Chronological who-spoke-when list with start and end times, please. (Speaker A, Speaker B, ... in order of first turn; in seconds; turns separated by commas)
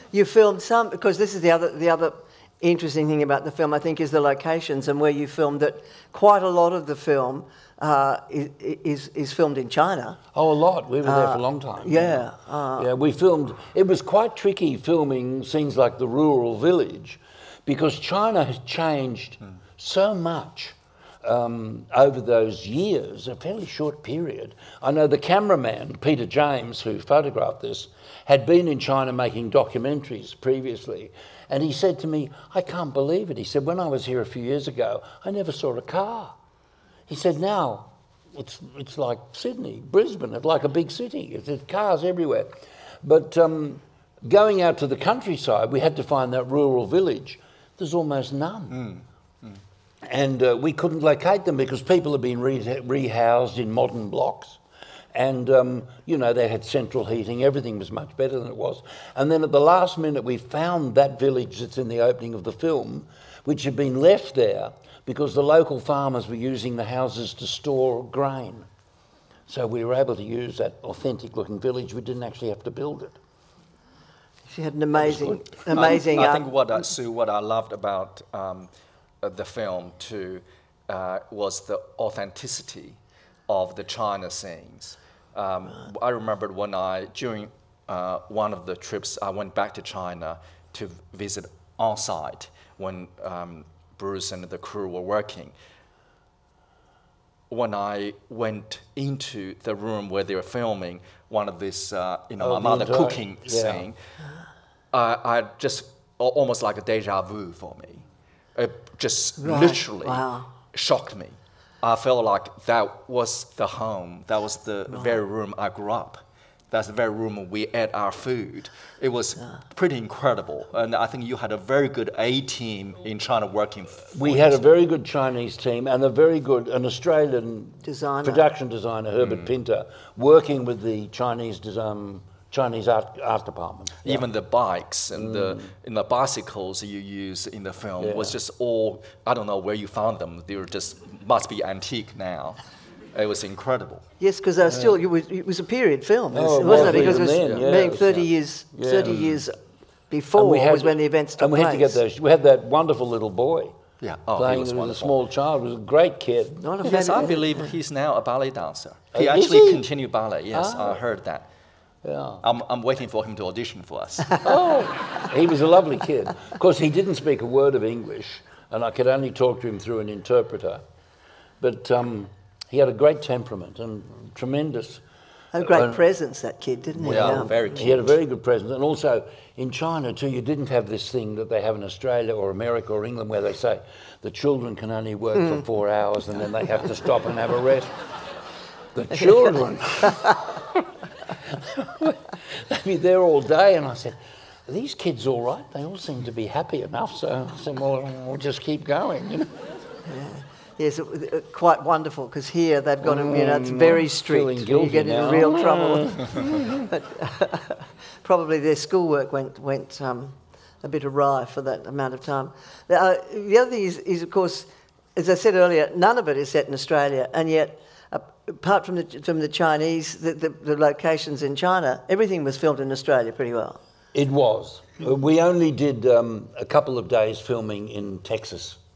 Speaker A: 0.1-10.2, Speaker B: 10.3-12.2, Speaker A: 11.0-12.9, Speaker B: 12.8-36.4, Speaker B: 37.1-48.9, Speaker C: 48.7-49.6, Speaker B: 50.0-54.6, Speaker B: 55.1-68.7, Speaker B: 69.5-73.2, Speaker A: 74.5-76.4, Speaker C: 75.1-78.7, Speaker C: 79.2-83.0, Speaker C: 83.5-95.5, Speaker C: 97.5-104.0, Speaker B: 102.4-103.9, Speaker C: 104.9-108.0, Speaker C: 108.5-124.6, Speaker A: 109.4-110.5, Speaker A: 114.9-115.2, Speaker B: 124.1-134.3, Speaker A: 127.8-128.4, Speaker C: 129.2-129.5, Speaker C: 134.0-142.6, Speaker B: 135.1-135.7, Speaker B: 138.0-138.4, Speaker C: 143.1-144.0, Speaker A: 144.2-149.6, Speaker B: 144.7-145.0, Speaker B: 146.3-149.3, Speaker C: 146.7-147.6, Speaker A: 150.1-152.0, Speaker B: 150.3-153.8, Speaker C: 154.0-155.1, Speaker B: 154.3-157.2, Speaker A: 156.6-157.5, Speaker C: 156.8-161.5, Speaker B: 159.1-159.8, Speaker B: 160.5-161.0, Speaker B: 162.0-162.4, Speaker C: 162.4-164.3, Speaker B: 164.4-170.8, Speaker B: 171.6-175.0, Speaker A: 175.5-177.5, Speaker B: 175.6-176.0, Speaker C: 177.0-178.1, Speaker B: 177.0-187.9, Speaker B: 188.9-199.5, Speaker A: 200.1-223.8, Speaker B: 203.0-206.8, Speaker B: 224.1-228.8